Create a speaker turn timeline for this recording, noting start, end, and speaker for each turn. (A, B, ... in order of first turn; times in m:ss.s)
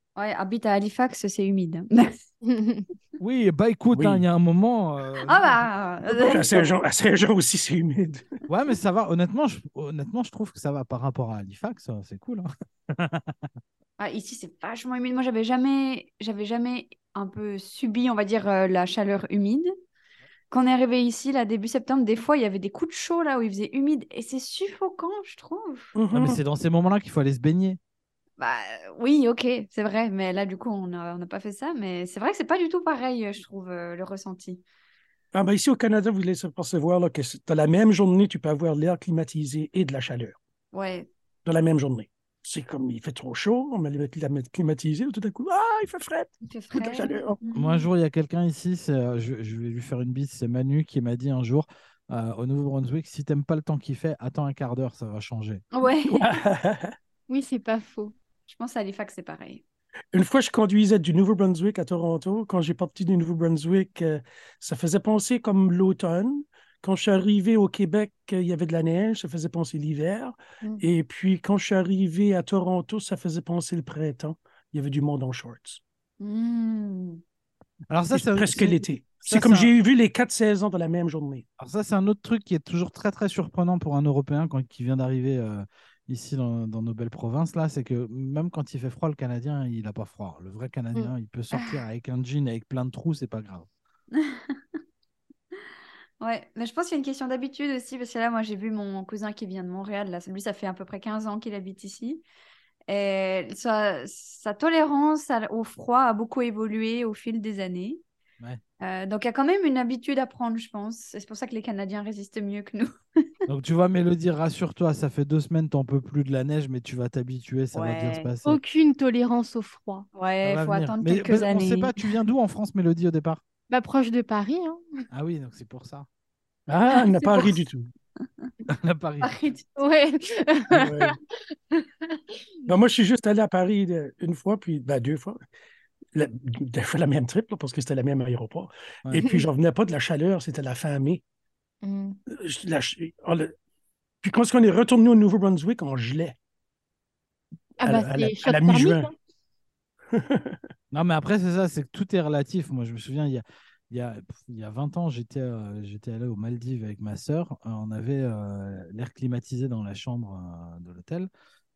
0:00.2-0:02.1 A
0:02.5-0:02.8 B
0:03.2-0:05.7 C
0:03.9-0:04.2 D
0:05.2-0:06.8 A
0:06.1-0:08.3 D
0:08.5-0:13.3 C
0:14.0-0:19.7 A
0:20.5-0:25.9 A
0:26.0-0:26.4 D
0:26.1-0:27.8 C
0:28.4-0:34.6 A
0:35.3-0:40.4 D
0:40.7-0:41.1 A
0:41.4-0:47.4 D
0:46.5-0:47.9 A
0:47.6-0:55.6 C
0:55.7-0:56.3 A
0:56.2-0:56.9 D
0:57.3-0:58.1 B
0:58.5-0:59.6 A
1:00.1-1:15.8 D
1:16.2-1:17.2 A
1:17.9-1:19.7 C
1:18.1-1:21.4 D
1:21.6-1:33.7 C
1:34.2-1:34.5 A
1:36.2-1:42.2 A
1:42.9-1:48.0 A
1:48.8-1:52.9 A
1:53.5-1:58.6 C
1:57.7-1:58.3 A
1:58.4-2:00.1 B
2:00.1-2:01.9 A
2:00.4-2:03.4 C
2:03.7-2:04.8 B
2:05.1-2:06.1 C
2:06.7-2:07.9 D
2:08.7-2:09.5 C
2:09.2-2:09.7 A
2:09.8-2:11.1 B
2:10.7-2:11.2 D
2:11.7-2:12.2 B
2:12.7-2:15.4 D
2:16.2-2:21.2 D
2:21.8-2:22.2 B
2:22.3-2:23.5 D
2:24.2-2:26.4 D
2:27.8-2:29.1 B
2:27.8-2:29.1 D
2:30.1-2:30.6 D
2:30.9-2:41.3 C